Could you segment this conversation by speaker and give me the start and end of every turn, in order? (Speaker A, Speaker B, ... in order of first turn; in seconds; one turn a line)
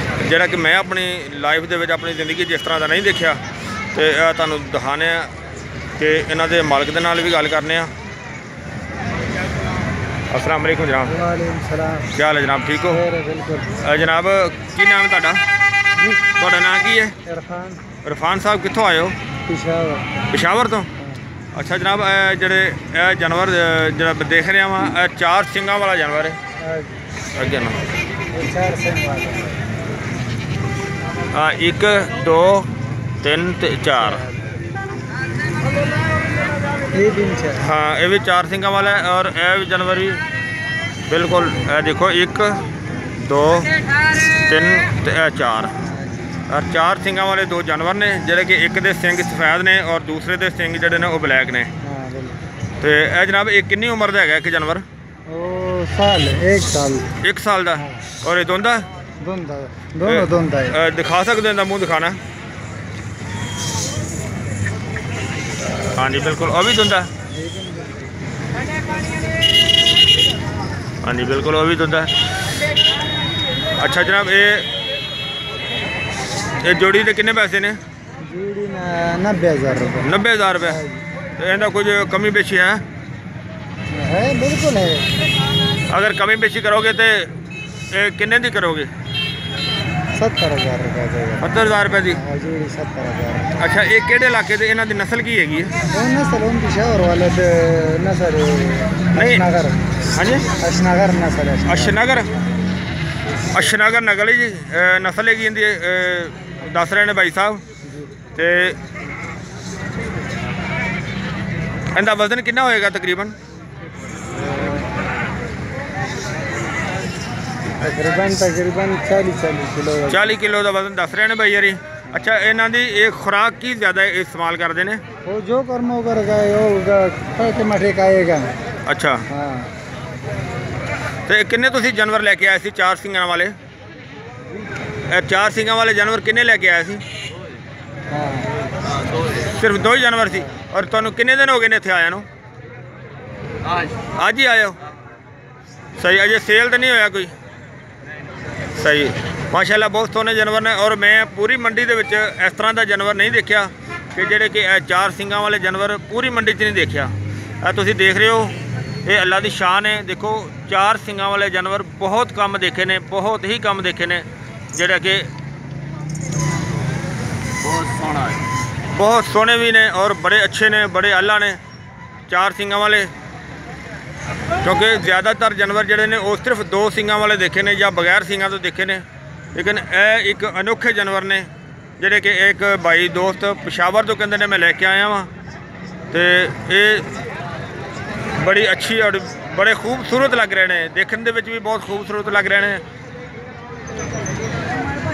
Speaker A: 0.2-5.3
Speaker A: 6.0-7.9
Speaker A: 10.3-11.1
Speaker B: 11.0-12.1
Speaker A: 12.1-13.0
Speaker B: 12.8-13.8
Speaker A: 13.8-15.4
Speaker B: 15.9-16.2
Speaker A: 16.3-17.1
Speaker B: 17.2-17.8
Speaker A: 18.0-19.1
Speaker B: 19.5-20.1
Speaker A: 20.3-20.9
Speaker A: 21.5-26.4
Speaker B: 26.6-27.0
Speaker A: 27.3-27.8
Speaker B: 28.3-29.5
Speaker A: 31.3-34.2
Speaker B: 36.9-37.6
Speaker A: 37.6-40.2
Speaker A: 41.1-42.6
Speaker A: 43.2-45.7
Speaker B: 45.8-46.4
Speaker A: 46.5-51.7
Speaker B: 51.8-52.4
Speaker A: 52.8-54.8
Speaker B: 55.3-57.1
Speaker A: 57.2-58.9
Speaker B: 57.8-58.0
Speaker B: 59.2-60.8
Speaker A: 60.0-62.2
Speaker A: 65.9-67.1
Speaker B: 67.3-68.1
Speaker A: 71.0-72.1
Speaker A: 73.8-74.7
Speaker A: 76.6-77.8
Speaker B: 78.2-81.0
Speaker A: 80.0-80.8
Speaker A: 81.4-82.8
Speaker B: 83.9-85.1
Speaker A: 85.9-87.3
Speaker A: 87.9-88.9
Speaker B: 90.2-93.6
Speaker A: 91.4-92.2
Speaker A: 93.6-95.8
Speaker B: 95.8-100.0
Speaker A: 99.1-99.4
Speaker A: 100.1-100.5
Speaker B: 100.5-102.0
Speaker A: 101.6-102.3
Speaker A: 103.5-107.6
Speaker A: 108.3-108.8
Speaker A: 111.9-113.3
Speaker B: 114.3-114.8
Speaker B: 117.8-120.4
Speaker A: 120.1-125.0
Speaker B: 125.2-128.5
Speaker A: 128.8-129.2
Speaker B: 129.3-129.7
Speaker A: 131.3-133.5
Speaker A: 135.1-137.0
Speaker B: 138.1-138.5
Speaker A: 139.4-142.3
Speaker A: 143.9-144.8
Speaker A: 146.0-147.3
Speaker A: 148.7-165.3
Speaker A: 167.9-168.3
Speaker A: 168.9-171.6
Speaker A: 172.3-173.1
Speaker A: 174.6-179.0
Speaker A: 179.5-185.3
Speaker A: 186.1-187.1
Speaker A: 188.3-192.8